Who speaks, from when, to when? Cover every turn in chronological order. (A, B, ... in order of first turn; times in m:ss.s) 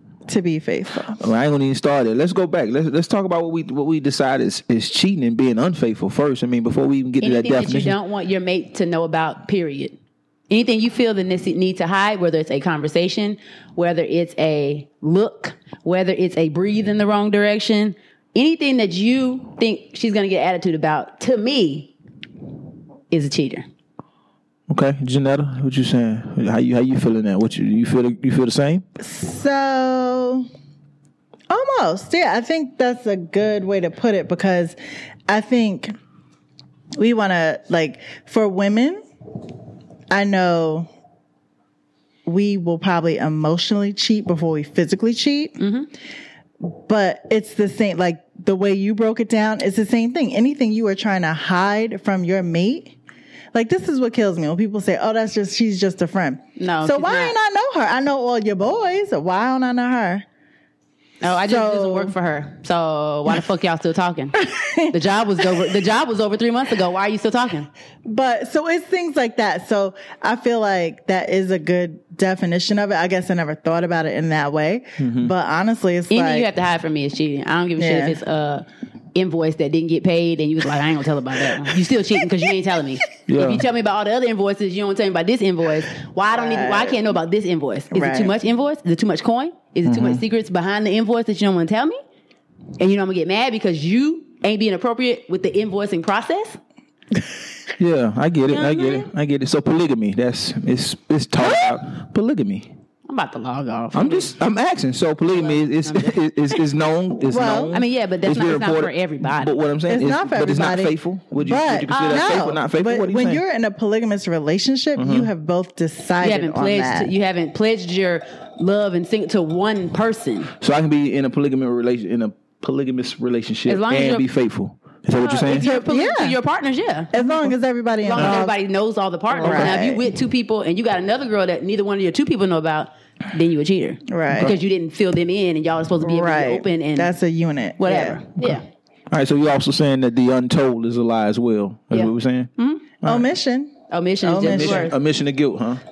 0:00.3-0:01.3 A
0:01.2-0:07.9 B
0:07.2-0:10.0 C
0:10.5-0:21.9 C
0:23.1-0:23.6 C
0:24.7-0:28.8 B
0:29.0-0:30.5 A
0:31.5-0:34.8 A
0:35.3-0:35.9 A
0:37.0-0:39.0 A
0:40.1-0:40.9 A
0:42.2-0:45.6 A
0:45.6-0:45.9 C
0:46.6-0:52.9 A
0:53.5-1:00.2 A
0:56.6-0:57.4 C
1:01.2-1:07.7 C
1:01.2-1:02.1 A
1:04.4-1:05.7 A
1:08.0-1:16.5 A
1:15.0-1:15.3 B
1:16.1-1:32.0 C
1:17.8-1:18.2 A
1:23.3-1:23.6 B
1:26.3-1:27.1 A
1:27.9-1:28.3 A
1:29.8-1:30.2 B
1:32.8-1:36.6 C
1:37.8-1:42.7 B
1:38.5-1:39.1 C
1:43.1-1:44.3 C
1:43.9-1:53.4 B
1:45.3-1:46.1 C
1:47.3-1:47.7 A
1:47.7-1:49.5 C
1:49.9-1:57.1 A
1:51.9-1:52.4 C
1:55.0-1:55.3 B
1:56.2-2:00.5 C
2:00.6-2:05.7 B
2:03.7-2:04.2 C
2:05.1-2:07.3 C
2:05.5-2:06.4 A
2:07.1-2:08.5 A
2:08.0-2:17.1 C
2:09.3-2:10.0 A
2:09.4-2:09.8 B
2:14.1-2:14.5 A
2:16.0-2:18.2 A
2:17.8-2:18.6 C
2:19.1-2:22.5 B
2:21.9-2:22.8 C
2:23.0-2:25.0 A
2:23.9-2:25.0 C
2:24.4-2:25.8 B